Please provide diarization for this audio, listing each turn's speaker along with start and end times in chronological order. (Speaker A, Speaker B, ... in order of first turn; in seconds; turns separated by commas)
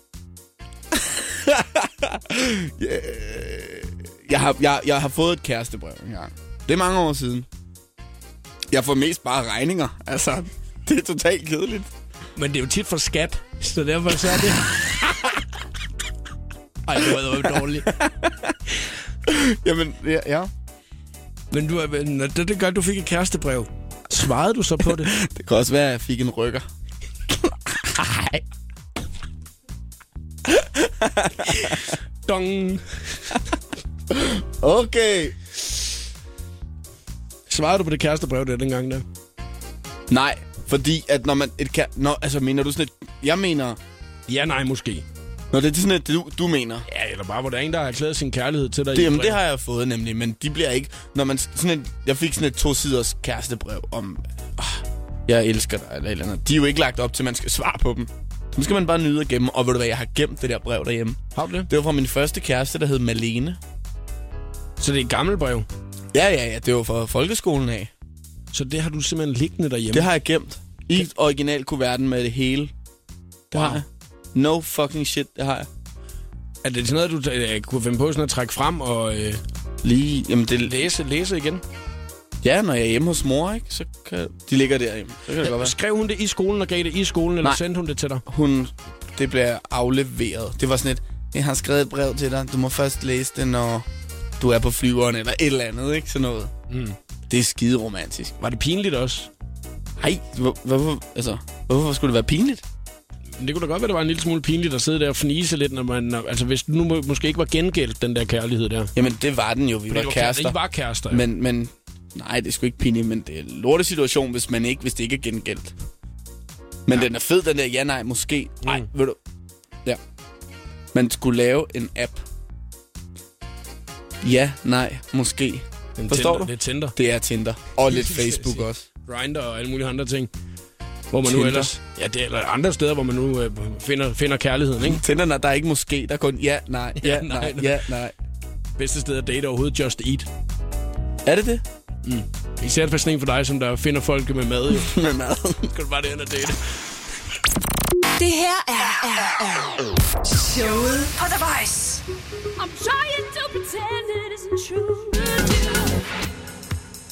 Speaker A: 0.9-7.5, Speaker A: 8.7-11.9, Speaker B: 12.4-14.9, Speaker B: 16.9-18.0, Speaker A: 17.4-18.6, Speaker A: 19.3-20.5, Speaker B: 21.5-25.1, Speaker A: 24.9-26.7, Speaker A: 27.3-28.4, Speaker A: 30.5-31.8, Speaker B: 31.5-33.4, Speaker A: 34.1-35.4, Speaker B: 37.5-39.0, Speaker A: 40.1-43.8, Speaker B: 44.3-45.0, Speaker A: 45.5-46.9, Speaker B: 46.9-49.4, Speaker A: 48.9-63.6, Speaker B: 61.4-61.7, Speaker B: 64.8-65.7, Speaker A: 66.1-67.9, Speaker B: 68.5-70.1, Speaker A: 69.9-72.7, Speaker A: 73.5-75.7, Speaker B: 73.5-73.8, Speaker B: 76.6-79.4, Speaker A: 79.8-80.9, Speaker B: 80.7-81.6, Speaker A: 82.4-85.8, Speaker B: 85.4-88.2, Speaker A: 88.3-93.9, Speaker A: 94.4-96.5, Speaker B: 96.7-97.0, Speaker A: 97.3-98.3, Speaker B: 98.4-99.3, Speaker A: 100.0-102.6, Speaker B: 103.4-108.9, Speaker A: 109.0-115.7, Speaker B: 109.9-111.3, Speaker A: 116.9-119.2, Speaker B: 118.6-118.9, Speaker A: 120.9-122.2, Speaker A: 124.2-128.9, Speaker B: 126.0-127.0, Speaker B: 127.9-130.3, Speaker B: 131.1-135.0, Speaker A: 131.2-131.8, Speaker A: 134.8-138.1, Speaker B: 137.0-137.8, Speaker B: 138.8-140.3, Speaker A: 141.2-141.6, Speaker B: 142.1-144.9, Speaker A: 144.8-145.7, Speaker B: 145.7-146.6, Speaker C: 148.2-152.0, Speaker D: 152.6-156.0